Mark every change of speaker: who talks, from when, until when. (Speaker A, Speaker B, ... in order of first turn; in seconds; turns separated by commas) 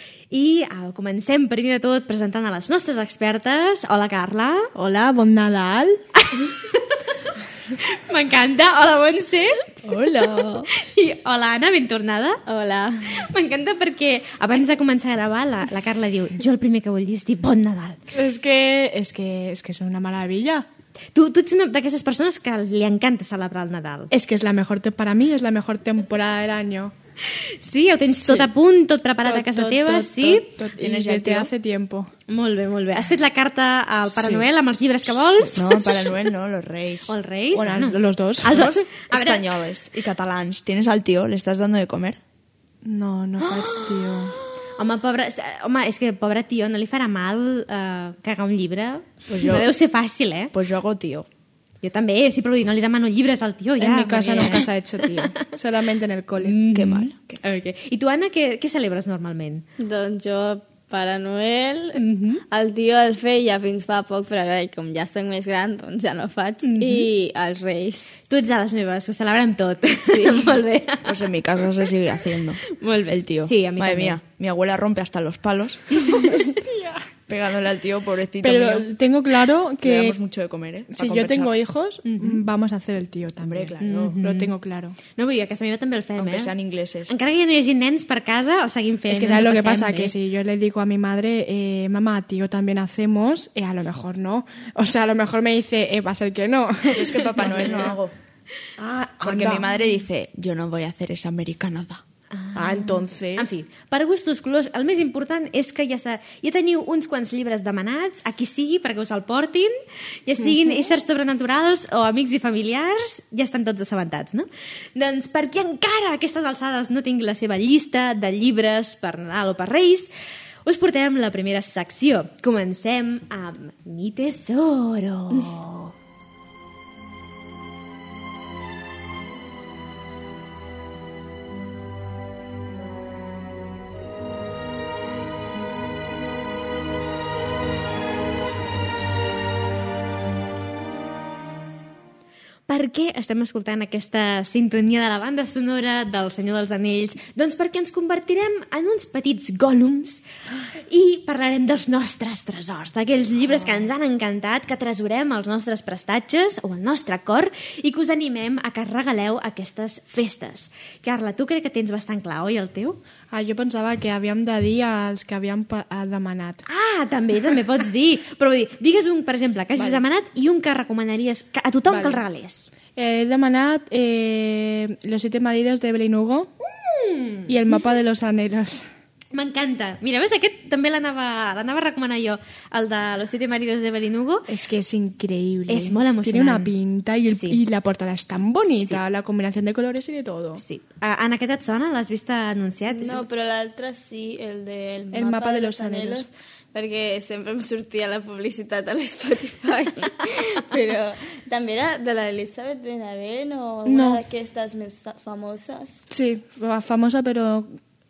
Speaker A: 0.3-4.7, Speaker B: 4.8-6.0, Speaker A: 6.2-7.0, Speaker A: 7.7-9.8, Speaker C: 9.9-10.7, Speaker A: 10.7-12.4, Speaker C: 12.5-13.2, Speaker A: 13.1-18.0, Speaker B: 18.1-20.6, Speaker A: 21.1-24.1, Speaker B: 24.1-26.9, Speaker A: 27.3-30.5, Speaker B: 28.2-28.5, Speaker B: 29.2-32.1, Speaker D: 30.8-31.5, Speaker A: 32.3-36.1, Speaker D: 34.1-34.5, Speaker D: 35.5-37.1, Speaker A: 37.1-39.5, Speaker B: 37.5-38.7, Speaker D: 38.4-42.2, Speaker B: 42.8-44.4, Speaker A: 44.8-50.5, Speaker D: 49.3-49.7, Speaker D: 50.5-51.3, Speaker A: 51.8-55.4, Speaker B: 53.8-56.6, Speaker A: 56.4-59.6, Speaker D: 56.7-57.4, Speaker C: 59.8-68.1, Speaker A: 62.0-62.4, Speaker A: 66.6-67.1, Speaker A: 68.3-71.2, Speaker C: 70.1-70.6, Speaker D: 71.1-76.4, Speaker A: 72.7-74.2, Speaker B: 76.3-77.0, Speaker D: 77.3-78.9, Speaker B: 78.4-80.2, Speaker D: 79.8-81.6, Speaker B: 80.9-85.0, Speaker A: 82.0-82.5, Speaker D: 83.4-84.2, Speaker A: 83.8-84.5, Speaker A: 85.2-86.5, Speaker D: 86.2-87.1, Speaker A: 87.1-90.2, Speaker B: 89.1-97.8, Speaker D: 96.9-98.1, Speaker B: 98.8-99.7, Speaker D: 99.2-102.0, Speaker A: 102.3-109.7, Speaker B: 102.5-103.5, Speaker A: 110.3-120.1, Speaker B: 110.4-110.9, Speaker A: 120.7-125.9, Speaker A: 142.7-150.2, Speaker A: 150.9-163.0, Speaker B: 163.3-166.6, Speaker A: 166.7-172.7, Speaker B: 171.9-172.2, Speaker B: 173.0-176.5, Speaker A: 176.6-177.5, Speaker B: 177.5-178.9, Speaker A: 179.3-184.5, Speaker B: 184.5-190.6, Speaker A: 185.7-186.8, Speaker A: 187.3-187.6, Speaker A: 188.7-189.0, Speaker A: 190.6-193.3, Speaker C: 192.9-206.0, Speaker B: 195.1-196.3, Speaker B: 203.9-204.2, Speaker B: 206.1-207.8